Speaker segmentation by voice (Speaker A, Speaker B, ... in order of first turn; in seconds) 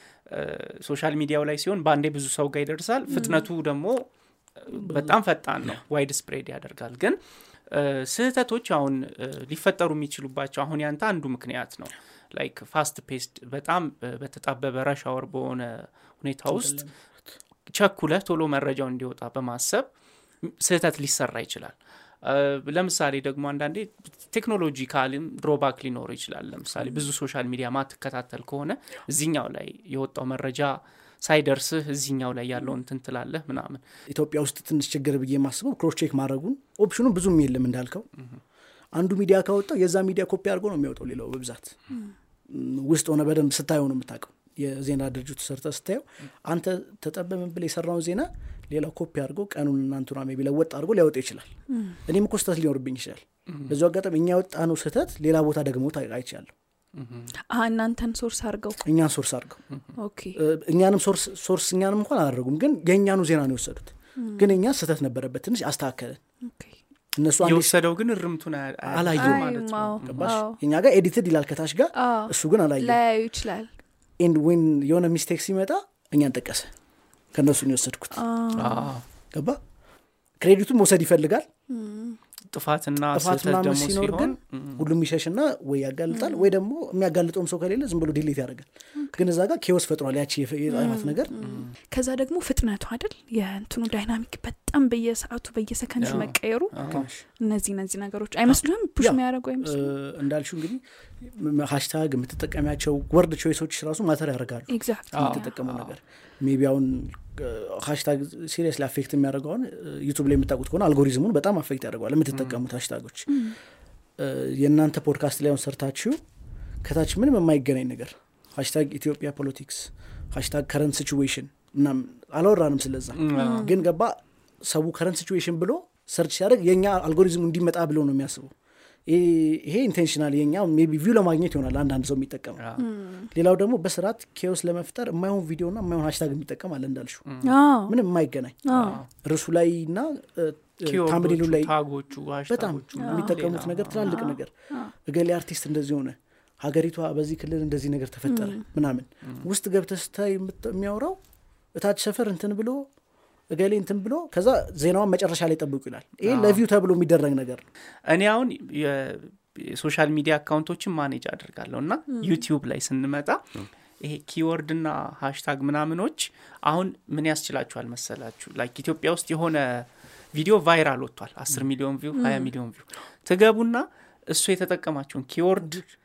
Speaker A: 0.3-16.8, 17.7-19.9, 20.4-33.8, 53.5-53.7, 57.0-57.3, 67.4-70.4, 78.5-79.0, 82.5-84.8, 91.4-91.7, 96.0-97.1, 105.1-105.9, 112.3-112.6, 123.2-123.7, 132.6-132.8, 137.3-137.5, 138.7-139.1, 140.8-144.2, 156.2-156.6, 158.1-175.8
Speaker B: 4.8-5.1, 16.4-17.0, 34.1-38.1, 38.9-41.8, 42.5-51.5, 52.0-56.5, 58.8-59.6, 60.4-66.2, 67.2-67.8, 68.8-69.5, 70.0-73.0, 74.2-76.7, 77.3-78.2, 79.3-79.6, 80.4-81.5, 83.1-91.3, 96.9-97.2, 99.0-113.4, 114.2-116.2, 116.8-128.5, 129.1-132.6, 133.3-137.3, 137.9-141.7, 142.5-151.2, 151.7-152.9, 153.5-157.7
Speaker C: 51.7-52.0, 57.5-58.8, 60.0-60.4, 64.2-64.5, 66.4-66.8, 69.2-70.6, 72.0-73.7, 78.1-78.9, 81.7-82.2, 86.1-86.5, 89.0-89.2, 90.7-99.9, 104.7-105.5, 113.3-113.6, 123.3-123.8, 132.8-133.3, 137.4-137.9, 138.7-139.0, 143.0-143.4, 144.0-144.9, 148.3-148.6, 172.1-172.5